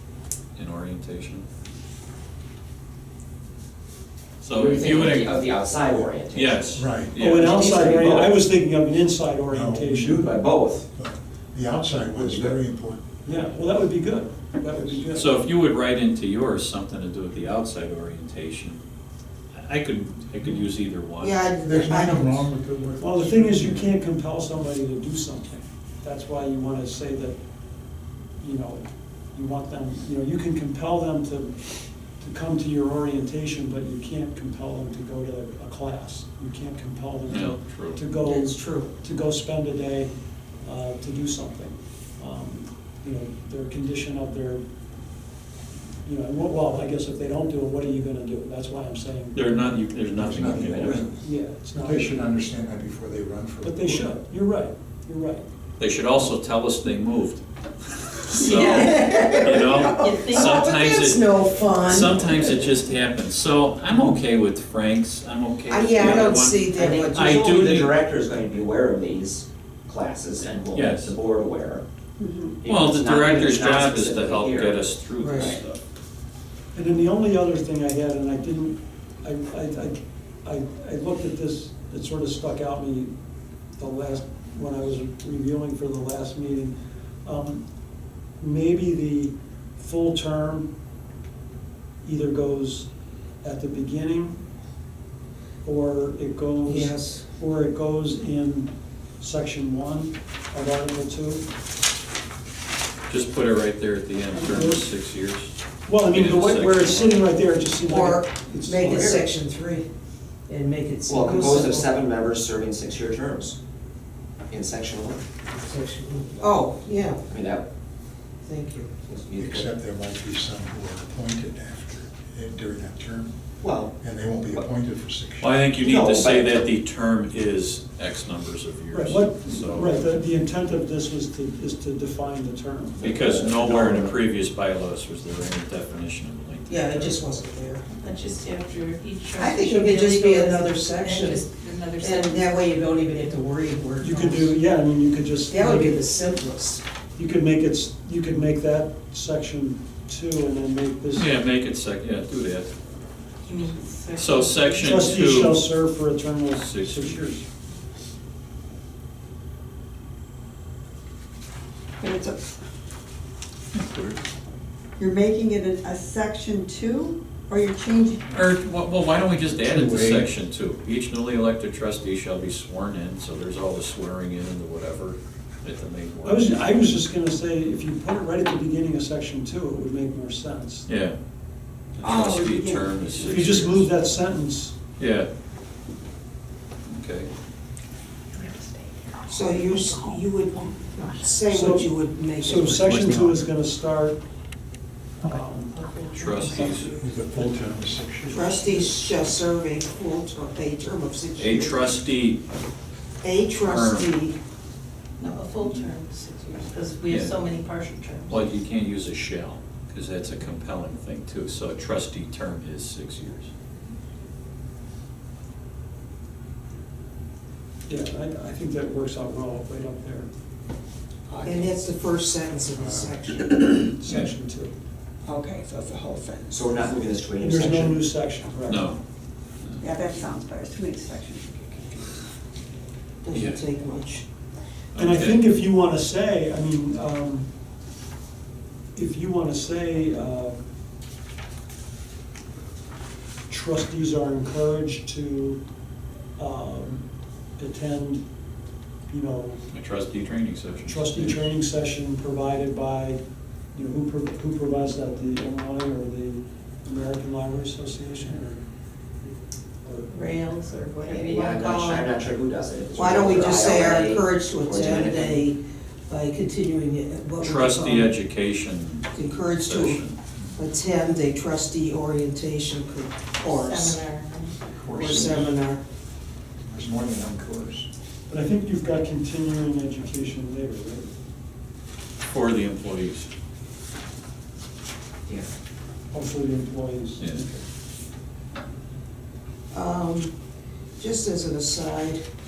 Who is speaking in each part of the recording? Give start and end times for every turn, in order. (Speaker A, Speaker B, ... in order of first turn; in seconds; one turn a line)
Speaker A: 0.6-1.4
Speaker A: 4.4-5.4
Speaker B: 4.5-8.4
Speaker C: 5.7-6.1
Speaker A: 6.3-7.6
Speaker C: 6.8-7.2
Speaker D: 7.2-10.3
Speaker C: 9.5-10.3
Speaker B: 10.1-10.8
Speaker C: 10.9-13.0
Speaker B: 11.9-12.6
Speaker D: 13.2-15.4
Speaker C: 14.7-15.1
Speaker A: 15.1-18.8
Speaker A: 19.5-21.4
Speaker E: 21.2-22.5
Speaker C: 21.6-23.9
Speaker D: 23.0-27.4
Speaker D: 28.4-40.1
Speaker A: 37.3-38.0
Speaker E: 38.2-38.9
Speaker D: 40.6-44.6
Speaker D: 46.0-49.8
Speaker A: 49.3-51.1
Speaker C: 50.1-54.2
Speaker D: 51.2-52.2
Speaker D: 53.6-55.5
Speaker A: 55.8-57.4
Speaker A: 58.1-67.9
Speaker E: 58.3-62.7
Speaker F: 58.4-60.6
Speaker E: 65.7-67.4
Speaker B: 66.0-71.8
Speaker A: 70.7-71.1
Speaker G: 72.2-72.6
Speaker B: 72.6-74.8
Speaker A: 72.7-75.8
Speaker E: 75.2-75.6
Speaker D: 76.7-83.1
Speaker D: 83.8-87.6
Speaker D: 88.4-90.7
Speaker D: 92.0-92.9
Speaker D: 93.4-94.4
Speaker D: 95.6-101.5
Speaker E: 96.7-97.2
Speaker A: 103.1-107.2
Speaker D: 104.3-104.9
Speaker D: 105.8-109.2
Speaker E: 107.8-109.9
Speaker B: 108.8-109.2
Speaker E: 110.5-111.9
Speaker B: 111.1-113.5
Speaker B: 114.5-115.2
Speaker E: 115.6-117.2
Speaker B: 117.3-117.6
Speaker E: 118.4-118.9
Speaker B: 119.1-119.7
Speaker C: 119.3-123.3
Speaker B: 123.6-124.0
Speaker C: 124.0-125.6
Speaker A: 125.4-130.0
Speaker B: 125.8-126.7
Speaker D: 128.9-133.1
Speaker B: 133.0-134.2
Speaker A: 133.0-137.2
Speaker E: 136.7-137.8
Speaker F: 137.9-142.5
Speaker E: 139.3-144.5
Speaker D: 144.0-146.0
Speaker E: 145.5-146.8
Speaker D: 147.2-151.3
Speaker A: 151.1-152.7
Speaker F: 153.4-155.4
Speaker A: 154.1-155.6
Speaker D: 154.8-157.4
Speaker A: 156.6-157.4
Speaker G: 162.0-162.4
Speaker A: 163.7-164.2
Speaker G: 165.0-168.2
Speaker A: 168.3-176.6
Speaker C: 169.6-170.3
Speaker D: 176.2-180.9
Speaker A: 180.8-181.2
Speaker A: 182.0-183.9
Speaker G: 182.1-183.3
Speaker D: 183.2-184.7
Speaker A: 185.0-185.3
Speaker A: 186.9-187.3
Speaker E: 189.3-193.2
Speaker D: 191.5-194.2
Speaker C: 192.9-193.4
Speaker D: 195.2-195.8
Speaker F: 195.7-197.2
Speaker A: 196.2-196.9
Speaker C: 196.5-198.8
Speaker E: 198.3-202.0
Speaker A: 201.4-202.4
Speaker E: 203.2-204.4
Speaker A: 203.6-204.1
Speaker F: 205.2-208.5
Speaker A: 207.1-207.4
Speaker A: 208.3-213.5
Speaker D: 217.9-220.3
Speaker D: 221.3-221.7
Speaker E: 221.4-223.9
Speaker C: 222.8-223.2
Speaker D: 223.9-224.7
Speaker G: 225.2-226.6
Speaker B: 226.5-228.1
Speaker D: 227.4-228.9
Speaker A: 228.7-229.0
Speaker G: 229.8-232.2
Speaker E: 233.2-234.2
Speaker A: 233.3-233.6
Speaker A: 234.9-235.4
Speaker D: 234.9-237.5
Speaker D: 238.9-240.6
Speaker D: 243.5-245.6
Speaker D: 246.4-247.1
Speaker D: 247.6-248.2
Speaker D: 249.1-249.6
Speaker A: 249.7-251.4
Speaker D: 250.9-253.2
Speaker D: 253.7-258.6
Speaker D: 259.8-260.1
Speaker F: 260.1-261.6
Speaker B: 261.0-265.4
Speaker E: 261.6-262.1
Speaker E: 262.9-268.1
Speaker A: 267.4-270.2
Speaker E: 269.1-270.0
Speaker E: 270.6-274.0
Speaker F: 273.4-274.6
Speaker C: 274.7-275.5
Speaker E: 274.9-275.8
Speaker C: 276.6-277.9
Speaker D: 278.3-281.1
Speaker A: 282.3-283.3
Speaker D: 286.1-287.6
Speaker A: 287.2-287.4
Speaker E: 289.7-290.3
Speaker E: 291.0-292.2